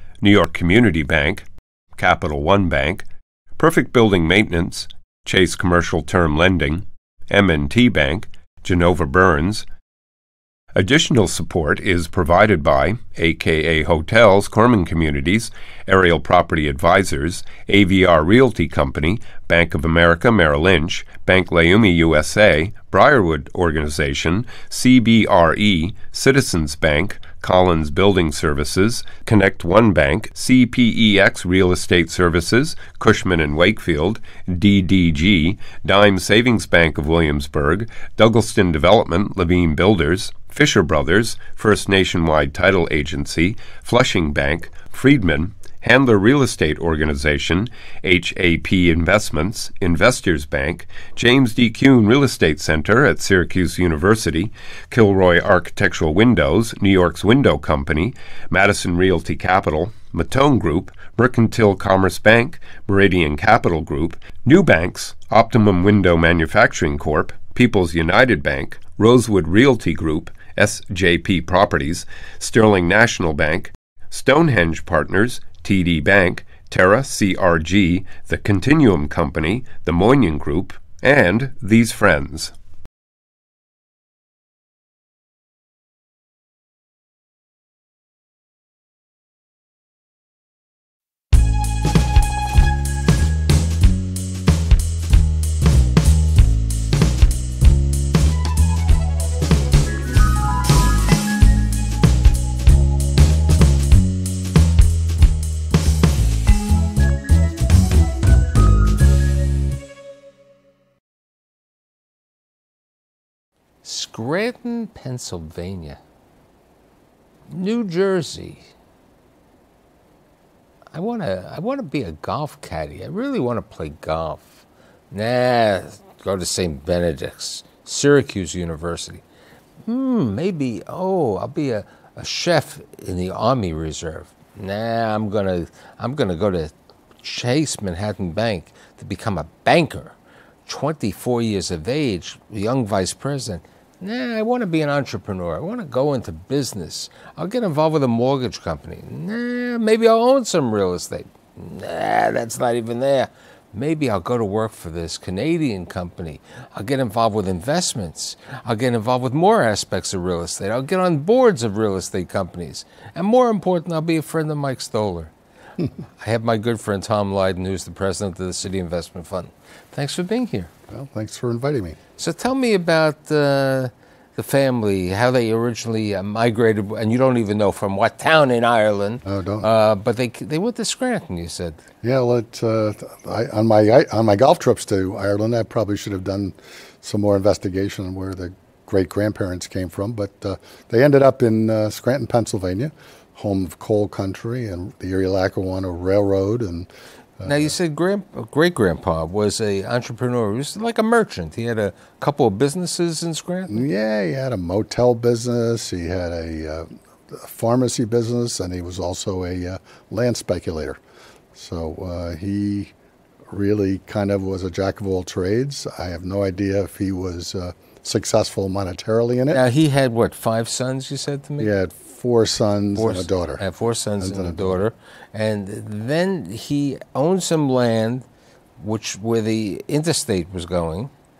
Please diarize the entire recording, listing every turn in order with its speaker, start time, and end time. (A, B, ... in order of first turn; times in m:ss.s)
0:00.2-0:01.4 A
0:02.0-0:03.0 A
0:03.6-0:09.6 A
0:10.7-1:22.5 A
1:53.8-1:56.0 B
1:57.5-1:58.6 B
2:00.9-2:09.2 B
2:09.8-2:20.1 B
2:20.6-2:45.3 B
2:46.2-2:50.7 B
2:50.9-2:52.0 C
2:52.2-3:01.8 B
2:59.3-2:59.7 C
3:02.0-3:17.7 C
3:17.4-3:23.8 B
3:23.7-3:31.0 C
3:31.5-3:32.9 C
3:33.5-3:39.6 C
3:39.5-3:41.7 B
3:41.6-3:43.6 C
3:43.0-3:48.2 B
3:44.2-3:44.8 C
3:48.8-3:51.1 B